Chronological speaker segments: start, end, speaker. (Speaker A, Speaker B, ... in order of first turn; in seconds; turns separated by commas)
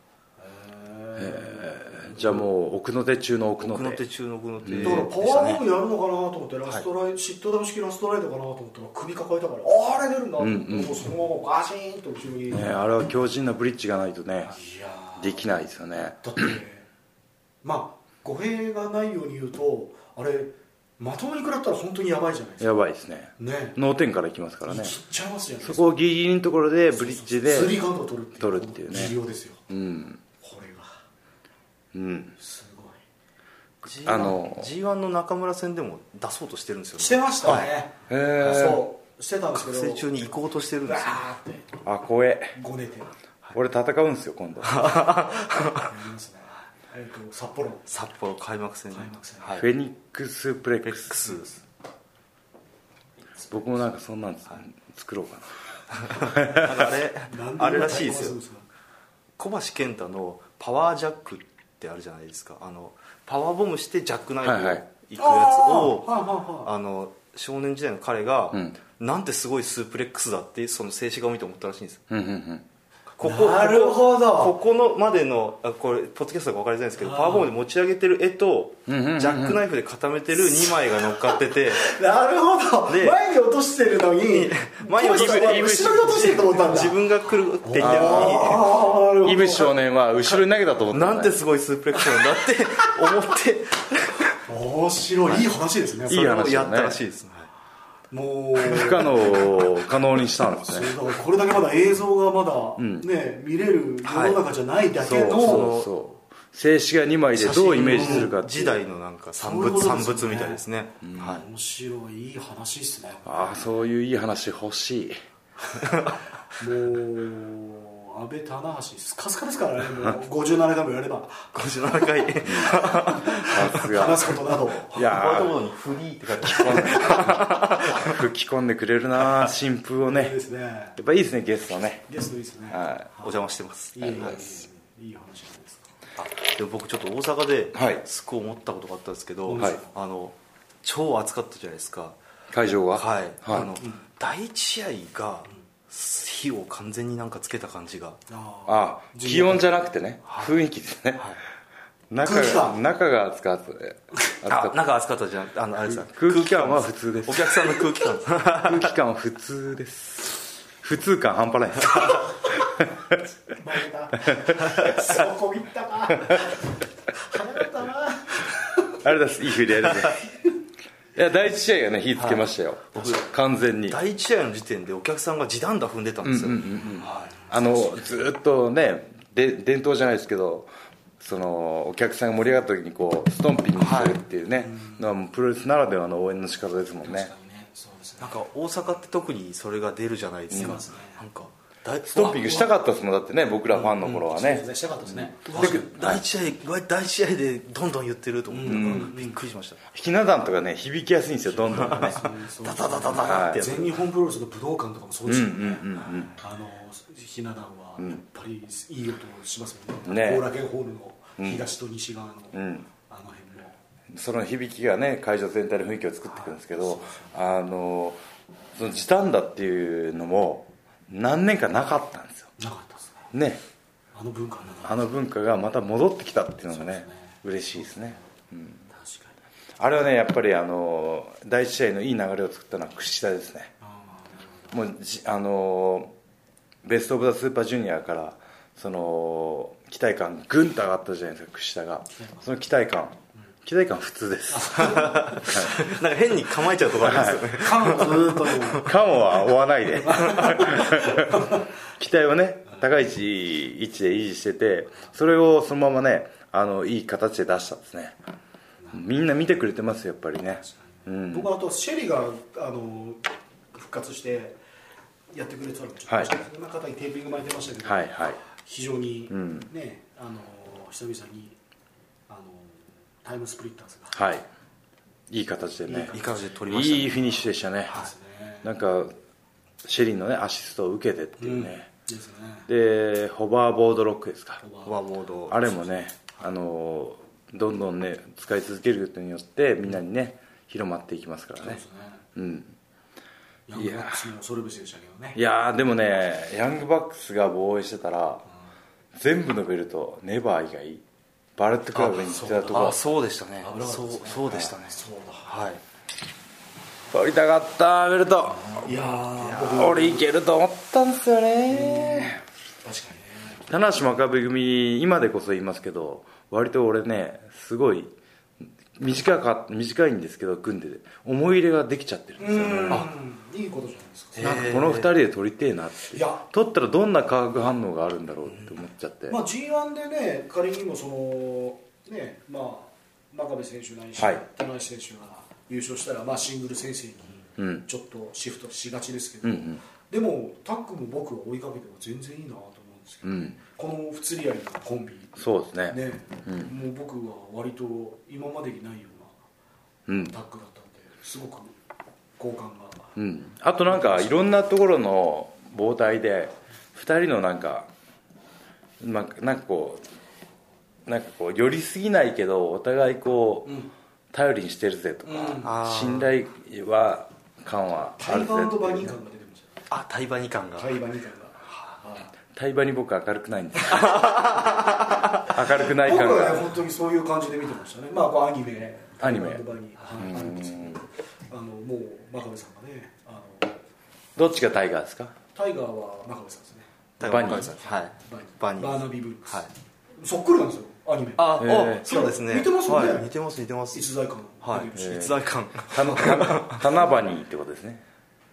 Speaker A: 0.4-2.4, Speaker B: 1.2-4.0, Speaker C: 3.6-5.6, Speaker B: 4.6-5.1, Speaker A: 4.8-12.7, Speaker B: 10.4-11.0, Speaker B: 12.5-14.6, Speaker A: 14.5-15.4, Speaker B: 15.2-16.5, Speaker A: 16.2-16.9, Speaker A: 17.6-22.8, Speaker B: 22.6-25.0, Speaker A: 23.4-23.8, Speaker A: 24.6-26.0, Speaker B: 25.6-27.8, Speaker A: 26.9-29.6, Speaker B: 28.4-29.2, Speaker B: 29.7-30.2, Speaker A: 30.4-30.9, Speaker B: 31.9-32.3, Speaker A: 32.4-33.0, Speaker C: 33.8-37.7, Speaker B: 34.0-34.7, Speaker A: 37.0-40.2, Speaker B: 37.5-38.8, Speaker C: 38.4-38.8, Speaker C: 39.5-41.2, Speaker A: 40.9-41.7, Speaker B: 41.8-42.6, Speaker A: 42.5-43.1, Speaker B: 43.5-45.0, Speaker C: 44.6-45.9, Speaker A: 45.8-47.9, Speaker C: 47.9-49.7, Speaker A: 48.9-49.6, Speaker B: 49.6-51.3, Speaker C: 50.9-51.5, Speaker B: 53.5-55.6, Speaker C: 56.0-58.4, Speaker B: 56.1-56.8, Speaker A: 57.2-58.6, Speaker C: 59.4-72.0, Speaker B: 64.4-64.8, Speaker A: 65.2-66.7, Speaker B: 72.1-72.6, Speaker C: 73.2-81.9, Speaker A: 73.2-74.5, Speaker A: 77.0-77.5, Speaker B: 78.9-79.6, Speaker A: 80.5-87.0, Speaker C: 82.9-83.2, Speaker C: 84.2-88.7, Speaker B: 85.0-86.4, Speaker A: 87.6-89.7, Speaker B: 87.8-88.6, Speaker B: 89.2-91.4, Speaker C: 90.9-94.3, Speaker A: 92.0-92.9, Speaker A: 94.4-96.3, Speaker B: 96.1-97.0, Speaker C: 96.1-97.5, Speaker A: 98.1-99.5, Speaker B: 98.6-101.0, Speaker A: 100.6-105.7, Speaker B: 102.8-103.0, Speaker C: 104.0-104.4, Speaker B: 105.0-108.8, Speaker C: 105.0-105.9, Speaker A: 107.4-108.3, Speaker C: 107.4-111.4, Speaker A: 109.4-113.7, Speaker B: 111.0-111.3, Speaker B: 113.2-115.2, Speaker A: 116.5-121.5, Speaker C: 121.5-123.9, Speaker B: 122.5-122.8, Speaker A: 122.8-125.2, Speaker B: 123.5-124.3, Speaker B: 124.9-125.6, Speaker C: 125.0-128.2, Speaker B: 126.4-130.4, Speaker A: 130.1-131.0, Speaker B: 131.0-132.1, Speaker A: 132.1-133.3, Speaker B: 132.7-133.1, Speaker C: 133.2-134.6, Speaker A: 133.9-135.9, Speaker C: 136.2-142.2, Speaker B: 137.7-138.0, Speaker A: 139.5-139.9, Speaker B: 142.5-143.8, Speaker C: 142.9-148.2, Speaker A: 148.3-149.7, Speaker B: 148.7-151.3, Speaker C: 150.3-150.5, Speaker B: 152.1-154.8, Speaker A: 152.2-152.8, Speaker C: 154.4-158.9, Speaker B: 155.8-157.8, Speaker B: 158.6-163.2, Speaker A: 163.5-169.0, Speaker B: 164.3-165.1, Speaker B: 169.0-170.2, Speaker B: 171.1-174.0, Speaker C: 172.2-173.3, Speaker C: 173.9-177.3, Speaker B: 176.2-187.3, Speaker A: 177.0-178.2, Speaker C: 183.8-184.2, Speaker A: 187.0-188.3, Speaker C: 188.2-192.7, Speaker B: 190.5-190.8, Speaker A: 190.5-191.2, Speaker B: 192.1-196.2, Speaker A: 193.9-195.9, Speaker C: 195.4-199.8, Speaker A: 198.5-199.4, Speaker B: 198.7-199.1, Speaker B: 199.9-202.3, Speaker A: 201.6-213.8, Speaker C: 201.7-203.9, Speaker B: 203.2-203.6, Speaker B: 205.2-206.3, Speaker B: 210.1-210.5, Speaker B: 211.4-211.7, Speaker B: 212.5-212.9, Speaker B: 214.1-218.2, Speaker A: 216.3-217.3, Speaker B: 218.7-222.5, Speaker A: 222.6-223.3, Speaker B: 223.3-223.6, Speaker A: 224.1-225.0, Speaker B: 224.8-228.8, Speaker A: 226.7-227.3, Speaker A: 228.9-229.3, Speaker B: 229.8-233.7, Speaker A: 233.8-234.8, Speaker B: 234.7-236.1, Speaker B: 236.8-245.8, Speaker A: 244.5-245.6, Speaker C: 244.8-248.9, Speaker B: 247.0-247.6, Speaker A: 247.4-248.9, Speaker B: 248.7-258.2, Speaker A: 250.0-251.6, Speaker C: 250.3-250.6, Speaker B: 258.9-261.5, Speaker A: 261.2-263.2, Speaker A: 263.7-264.6, Speaker A: 265.3-271.6, Speaker B: 267.8-268.4, Speaker B: 269.3-269.7, Speaker A: 272.3-274.2, Speaker B: 274.1-274.4, Speaker B: 275.3-276.1, Speaker A: 275.9-276.4, Speaker C: 276.1-277.3, Speaker B: 276.7-278.0, Speaker A: 277.9-278.6, Speaker B: 278.6-279.1, Speaker B: 279.8-281.9, Speaker A: 281.4-282.7, Speaker B: 282.7-284.6, Speaker A: 284.6-284.9, Speaker C: 284.8-285.8, Speaker B: 285.5-291.8, Speaker A: 291.6-292.2, Speaker B: 292.3-292.7, Speaker A: 293.7-295.4, Speaker B: 293.7-294.3, Speaker B: 295.3-298.4, Speaker B: 299.1-301.0, Speaker B: 301.6-303.0, Speaker C: 301.9-305.8, Speaker A: 302.4-302.9, Speaker A: 303.6-305.5, Speaker B: 307.1-308.9, Speaker A: 308.7-310.2, Speaker B: 309.5-312.4, Speaker A: 311.7-313.6, Speaker B: 313.7-318.1, Speaker B: 318.9-323.1, Speaker A: 322.4-324.8, Speaker C: 322.6-323.1, Speaker C: 324.4-325.1, Speaker B: 324.4-329.4, Speaker A: 326.1-326.4, Speaker A: 329.3-345.4, Speaker B: 337.6-337.9, Speaker B: 339.4-339.8, Speaker B: 343.2-343.6, Speaker B: 345.4-346.7, Speaker A: 345.9-349.4, Speaker B: 350.1-350.3, Speaker A: 350.1-351.7, Speaker A: 352.4-353.1, Speaker B: 353.1-357.9, Speaker A: 353.9-354.4, Speaker B: 359.0-360.0, Speaker B: 361.1-363.8, Speaker A: 363.6-363.9, Speaker B: 364.3-369.1, Speaker A: 365.2-365.7, Speaker C: 365.6-366.3, Speaker A: 368.2-369.9, Speaker C: 369.9-371.0, Speaker A: 370.8-372.3, Speaker B: 372.5-374.8, Speaker C: 373.9-375.2, Speaker B: 375.4-376.7, Speaker A: 375.7-383.8, Speaker B: 379.2-379.6, Speaker B: 380.2-381.0, Speaker B: 384.4-385.3, Speaker A: 385.5-393.3, Speaker B: 387.2-387.7, Speaker C: 387.2-389.7, Speaker C: 391.4-394.1, Speaker B: 391.6-392.0, Speaker A: 393.9-395.4, Speaker C: 394.6-396.8, Speaker B: 394.9-398.0, Speaker A: 395.9-396.6